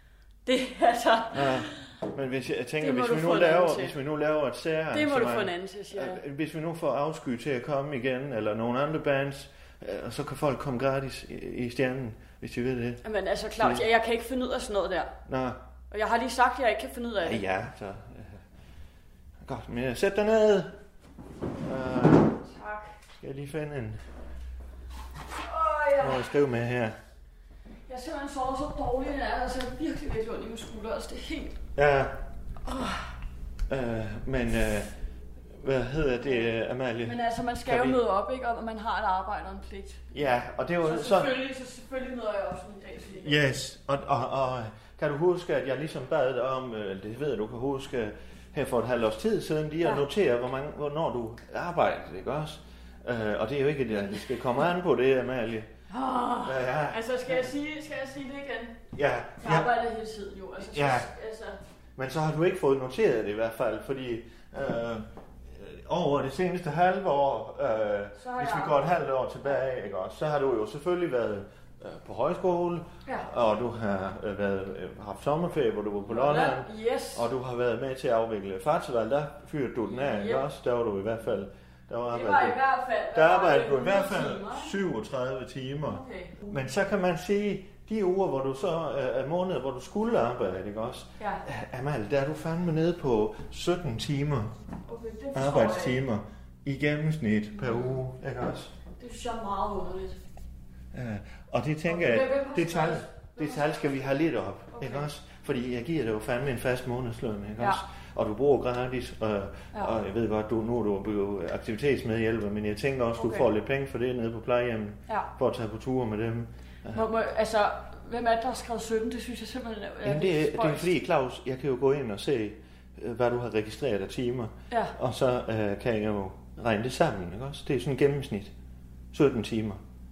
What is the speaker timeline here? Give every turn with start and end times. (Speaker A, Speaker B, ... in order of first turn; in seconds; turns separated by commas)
Speaker A: 0.5-1.9, Speaker B: 1.3-13.0, Speaker A: 2.8-4.0, Speaker A: 4.9-6.2, Speaker A: 13.0-15.1, Speaker B: 13.6-13.9, Speaker B: 15.3-15.6, Speaker A: 15.9-17.4, Speaker B: 17.2-18.4, Speaker B: 19.4-20.8, Speaker B: 21.6-22.4, Speaker A: 22.4-22.9, Speaker B: 23.2-24.0, Speaker A: 25.4-26.3, Speaker B: 26.0-27.0, Speaker A: 27.9-31.6, Speaker B: 31.8-32.2, Speaker A: 32.6-33.1, Speaker B: 33.7-34.9, Speaker B: 35.6-38.0, Speaker A: 37.0-40.1, Speaker B: 40.1-41.4, Speaker A: 40.8-43.4, Speaker B: 43.2-55.7, Speaker A: 55.9-58.8, Speaker B: 56.4-57.5, Speaker B: 58.9-59.7, Speaker A: 59.4-61.6, Speaker B: 60.6-61.1, Speaker B: 62.0-82.6, Speaker A: 68.2-68.8, Speaker A: 76.1-77.3, Speaker A: 79.9-80.5, Speaker A: 82.1-84.7, Speaker B: 83.1-94.5, Speaker A: 85.9-86.5, Speaker A: 94.8-96.0, Speaker B: 95.3-98.7, Speaker A: 97.6-98.0, Speaker A: 99.0-100.2, Speaker B: 100.9-117.0, Speaker A: 101.9-104.0, Speaker A: 104.7-105.1, Speaker A: 113.2-113.5, Speaker A: 116.9-120.9, Speaker B: 120.0-128.5, Speaker A: 124.7-125.0, Speaker B: 129.1-129.8